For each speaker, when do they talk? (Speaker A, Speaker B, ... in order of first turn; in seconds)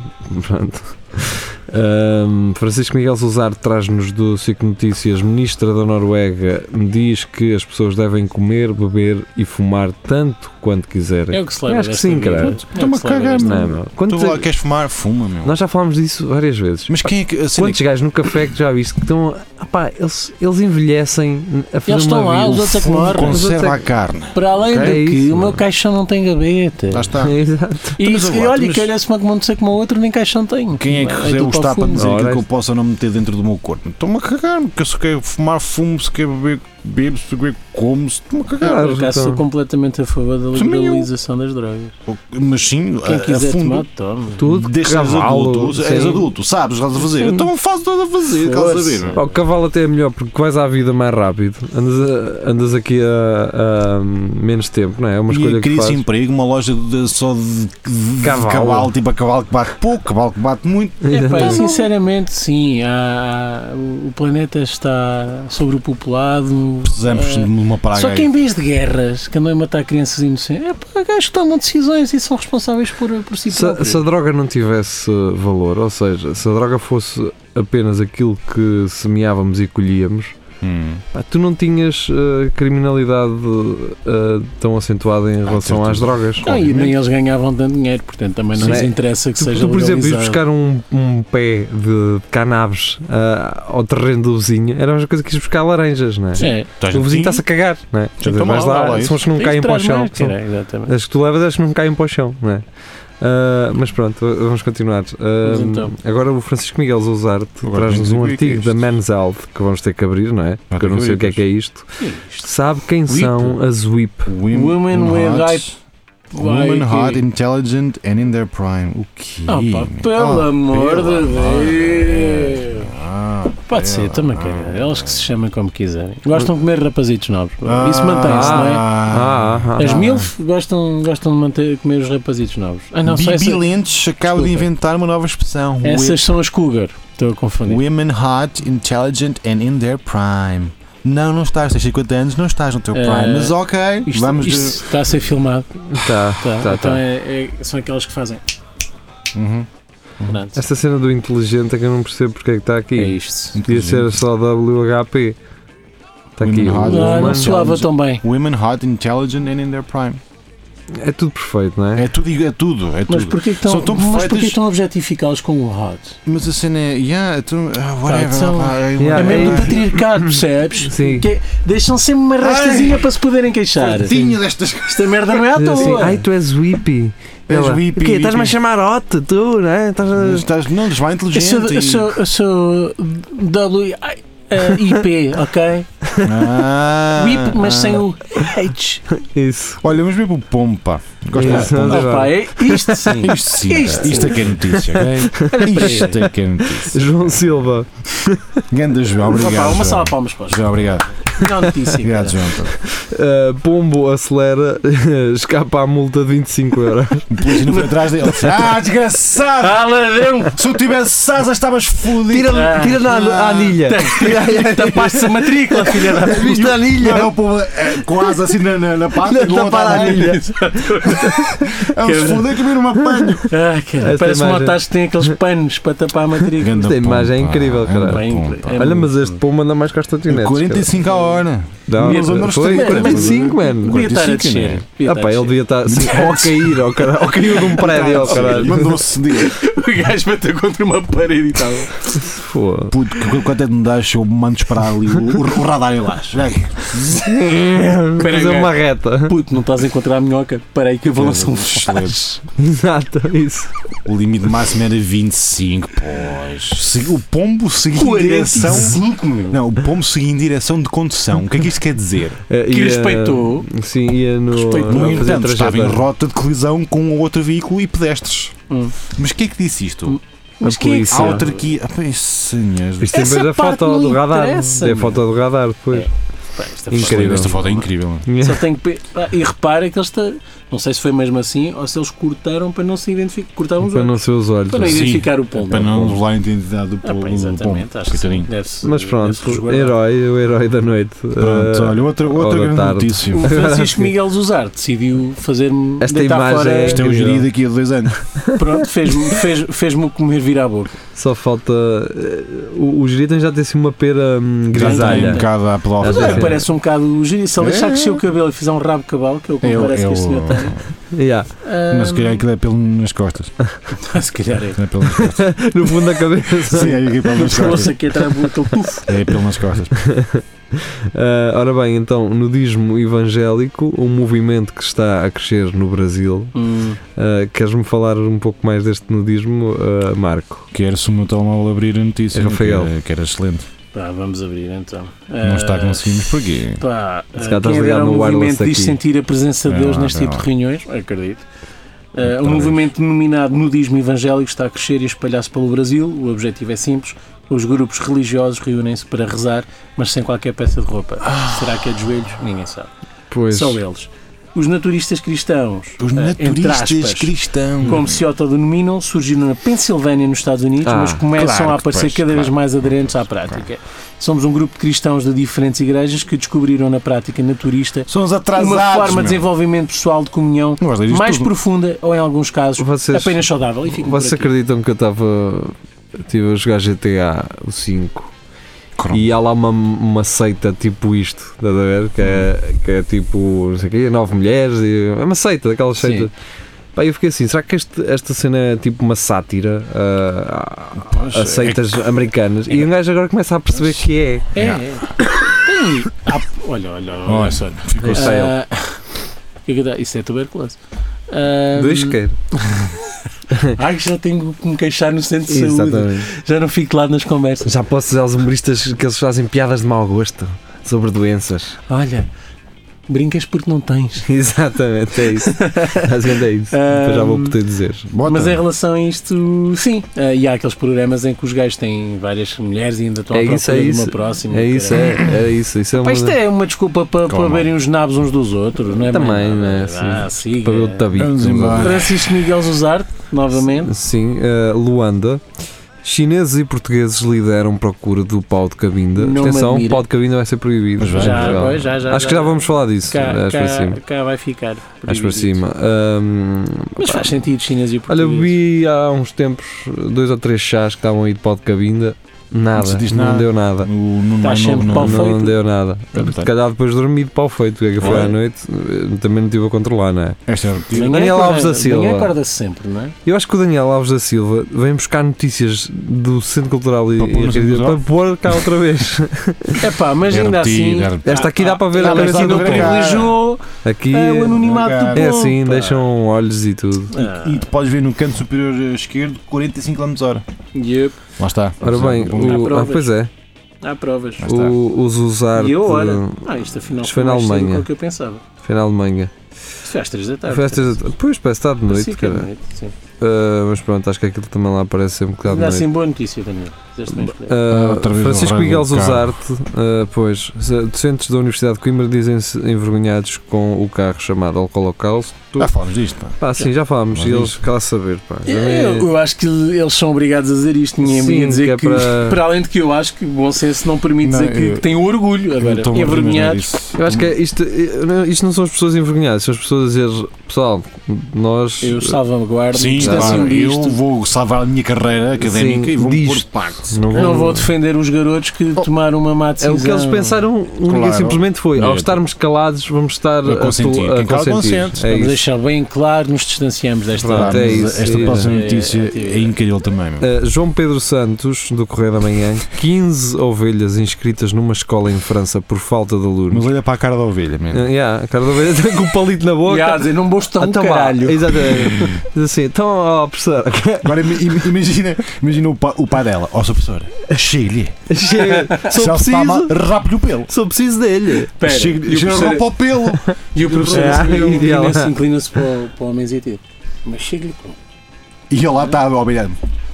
Speaker A: 0.2-12.6, 13.4-14.4, 15.4-23.8, 24.7-25.6, 27.2-28.0, 31.9-32.4, 38.6-39.4, 44.4-46.3, 47.1-47.5, 49.1-56.0, 58.2-58.9, 61.0-61.8, 73.5-80.3, 81.1-86.5, 88.6-100.3, 100.9-102.6, 103.2-114.3, 128.2-130.1, 145.9-147.0, 150.5-155.3, 156.4-157.6, 160.9-162.1, 169.0-171.3, 175.5-180.5, 186.0-186.4, 189.1-189.8, 191.3-193.1, 194.9-198.6, 202.8-207.5, 212.3-217.3, 219.2-221.8, 223.0-223.4, 224.0-225.3, 226.7-230.9, 231.9-234.0, 235.0-238.9, 242.1-243.0, 247.2-249.3, 252.6-253.7, 262.5-266.0, 270.6-271.4, 273.0-276.1, 276.9-277.5, 278.2-278.7, 283.8-285.1, 288.8-294.1, 296.0-297.4, 298.4-298.7, 301.1-305.5, 306.0-306.6, 311.1-311.5, 315.2-317.8, 319.9-326.6, 327.1-330.7, 332.3-332.9, 337.4-339.0, 353.3-353.8, 360.8-361.2, 372.8-378.3, 379.1-386.3, 386.9-394.5, 398.0-398.6, 401.7-402.4, 403.5-403.8, 405.5-406.3, 407.6-411.8, 414.3-418.1, 423.3-426.4, 428.9-432.1, 433.7-435.4, 436.0-444.0, 445.1-447.4, 448.1-453.9, 454.9-460.4, 461.0-462.3, 463.2-469.9, 471.2-473.1, 473.8-474.6, 475.1-477.1, 481.8-483.3, 484.4-486.4, 486.9-487.9, 488.6-489.3, 490.5-492.5, 493.2-495.9, 497.2-505.7, 506.4-509.1, 511.0-512.4, 516.9-522.2, 523.0-523.5, 525.4-527.7, 529.6-535.4, 537.2-538.5, 540.2-546.6, 547.7-554.5, 558.1-559.8, 560.5-561.5, 563.7-565.1
Speaker B: 11.3-13.7, 21.9-23.4, 24.3-27.1, 28.0-32.2, 38.6-41.9, 43.0-44.4, 48.3-49.2, 61.1-74.0, 86.4-90.4, 96.3-96.7, 98.5-100.9, 105.4-105.9, 112.0-112.5, 113.1-113.5, 114.5-115.6, 116.3-117.2, 119.5-122.9, 123.7-128.9, 129.8-133.6, 134.3-134.6, 135.8-137.8, 142.9-145.7, 146.3-148.4, 150.2-150.6, 152.9-153.6, 156.7-158.2, 163.1-166.2, 168.1-176.2, 181.3-185.9, 187.1-189.0, 191.4-196.2, 199.3-202.4, 207.5-208.5, 209.6-210.6, 212.4-216.7, 219.9-222.5, 223.5-226.9, 228.0-229.4, 232.0-235.6, 237.4-242.2, 248.2-252.4, 257.9-259.6, 262.7-263.7, 264.5-265.3, 268.7-268.9, 270.1-271.6, 273.1-275.2, 275.9-286.2, 287.0-289.9, 293.3-297.0, 298.6-301.0, 304.8-305.5, 306.0-310.8, 311.6-312.4, 314.0-314.8, 316.8-319.2, 326.5-327.0, 333.9-341.4, 342.1-352.9, 353.5-374.5, 386.0-386.3, 391.1-391.6, 394.5-399.0, 399.6-400.8, 401.3-403.0, 403.7-407.7, 411.9-412.3, 413.1-414.3, 415.3-417.5, 418.2-425.3, 426.0-431.1, 431.8-433.9, 439.1-440.0, 441.1-445.6, 447.0-448.5, 454.4-455.6, 458.0-458.4, 460.9-463.1, 469.8-476.1, 477.1-477.6, 480.7-481.2, 482.4-483.1, 483.8-484.5, 485.5-488.4, 489.8-491.1, 491.9-492.9, 495.4-497.6, 508.4-516.7, 521.8-524.0, 527.1-530.4, 535.0-539.5, 549.7-552.1, 558.3-558.9, 561.5-562.7, 563.5-567.8
Speaker C: 12.7-15.5, 16.9-17.8, 22.7-25.0, 26.9-27.4, 28.0-28.9, 30.8-38.8, 40.5-41.1, 42.1-43.9, 44.4-49.3, 55.3-61.7, 66.8-68.3, 80.6-81.0, 85.4-87.0, 88.6-88.8, 96.8-97.4, 98.2-99.2, 107.6-108.8, 110.7-111.4, 114.2-115.7, 116.3-125.3, 127.6-130.3, 133.1-136.3, 137.7-144.9, 149.3-149.7, 153.5-154.1, 156.4-160.2, 161.9-164.6, 166.2-169.8, 172.4-173.0, 173.8-176.1, 177.5-178.6, 180.1-182.2, 186.2-188.0, 189.8-197.3, 198.7-201.1, 202.0-202.8, 207.3-209.8, 210.4-213.8, 216.2-220.4, 221.7-223.5, 226.6-229.0, 230.3-234.8, 235.8-236.8, 237.7-239.5, 242.9-247.3, 251.2-252.3, 254.0-262.4, 264.8-270.2, 271.1-273.1, 276.9-278.3, 284.8-288.5, 291.4-293.5, 296.8-298.1, 304.7-306.6, 307.6-308.1, 309.6-310.8, 311.9-313.5, 314.8-315.5, 316.7-317.9, 319.1-320.0, 330.7-333.6, 335.4-336.8, 339.7-340.5, 342.2-342.9, 351.2-351.8, 356.0-358.2, 361.3-362.9, 368.1-369.5, 370.8-371.5, 379.0-379.3, 382.2-382.5, 391.4-392.0, 394.5-394.8, 397.2-398.4, 418.1-418.6, 427.2-427.7, 431.1-432.1, 441.0-441.7, 452.8-455.4, 456.1-456.5, 458.0-458.3, 460.5-461.3, 467.2-468.0, 470.2-473.4, 474.5-475.4, 477.2-480.4, 481.4-482.8, 484.4-484.7, 497.7-499.4, 505.6-506.4, 507.1-507.6, 514.2-514.9, 515.6-517.3, 522.7-527.4, 530.9-532.2, 533.4-535.0, 537.3-540.3, 546.5-547.9, 551.8-552.2, 554.0-558.1, 558.8-560.5, 561.6-564.7, 568.5-569.6